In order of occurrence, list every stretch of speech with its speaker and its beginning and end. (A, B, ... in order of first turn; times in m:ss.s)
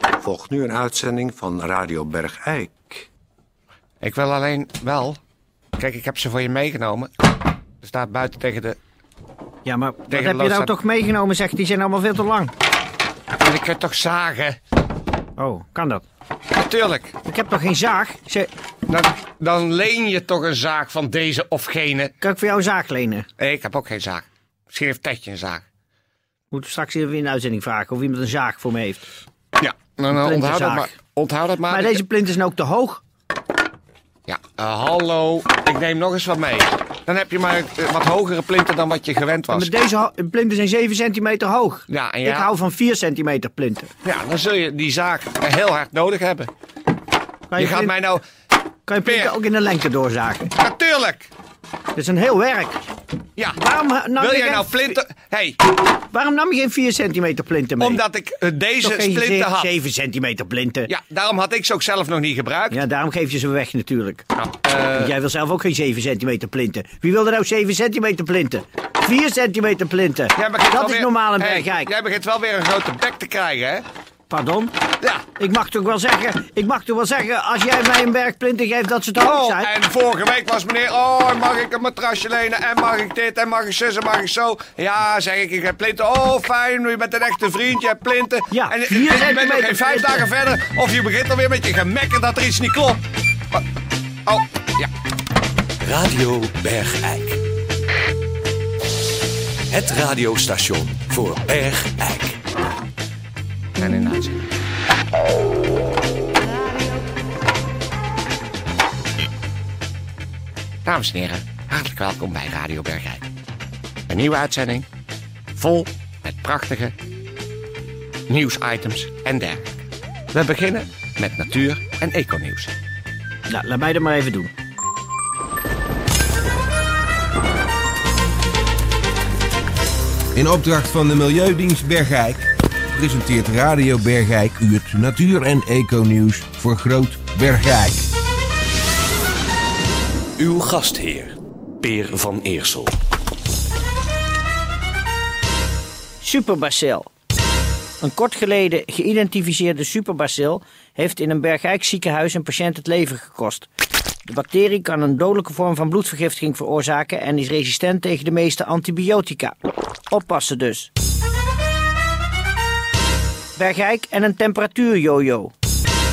0:00.2-0:03.1 A
0:04.0-0:05.2 B
0:05.8-0:07.1 B
0:07.8-0:08.8 B
0:09.6-0:12.5 C
0:10.1-0:10.7 B
0:13.4-0:14.6 B
0:15.4-0:16.0 C
0:16.5-0:17.1 B
0:17.2-0:18.5 C
0:18.9-0:22.1 B
0:22.2-0:23.3 C
0:23.4-0:25.6 B
0:26.5-0:29.0 C
0:29.6-0:32.0 B
0:30.1-0:30.9 C
0:31.7-0:33.0 C
0:34.3-0:39.7 B
0:39.5-0:43.9 C
0:41.9-0:42.5 B
0:44.0-0:46.5 B
0:47.5-0:47.9 C
0:47.6-0:48.2 B
0:48.9-0:50.5 C
0:49.0-0:49.3 B
0:50.6-0:51.3 B
0:51.9-0:52.8 C
0:53.5-0:55.0 C
0:54.2-0:55.6 B
0:56.1-0:58.0 C
0:57.8-0:59.7 B
0:58.8-1:00.9 C
1:00.9-1:02.8 B
1:02.7-1:04.2 C
1:04.3-1:05.1 B
1:04.9-1:11.9 C
1:10.4-1:13.8 B
1:14.3-1:14.7 C
1:15.4-1:19.7 C
1:19.2-1:33.0 B
1:28.5-1:30.2 C
1:34.2-1:34.9 B
1:35.8-1:37.3 D
1:39.7-1:42.4 D
1:39.8-1:40.5 B
1:41.3-1:41.9 B
1:43.8-1:44.5 B
1:50.8-1:53.2 B
1:54.1-1:54.8 B
1:55.6-1:56.9 B
1:58.3-1:59.6 B
2:00.3-2:02.7 B
2:03.5-2:04.5 C
2:10.4-2:18.0 E
2:20.4-2:21.3 D
2:21.9-2:22.9 D
2:26.2-2:27.1 C
2:28.0-2:33.7 C
2:34.2-2:39.6 C
2:40.1-2:40.9 C
2:43.6-2:45.5 C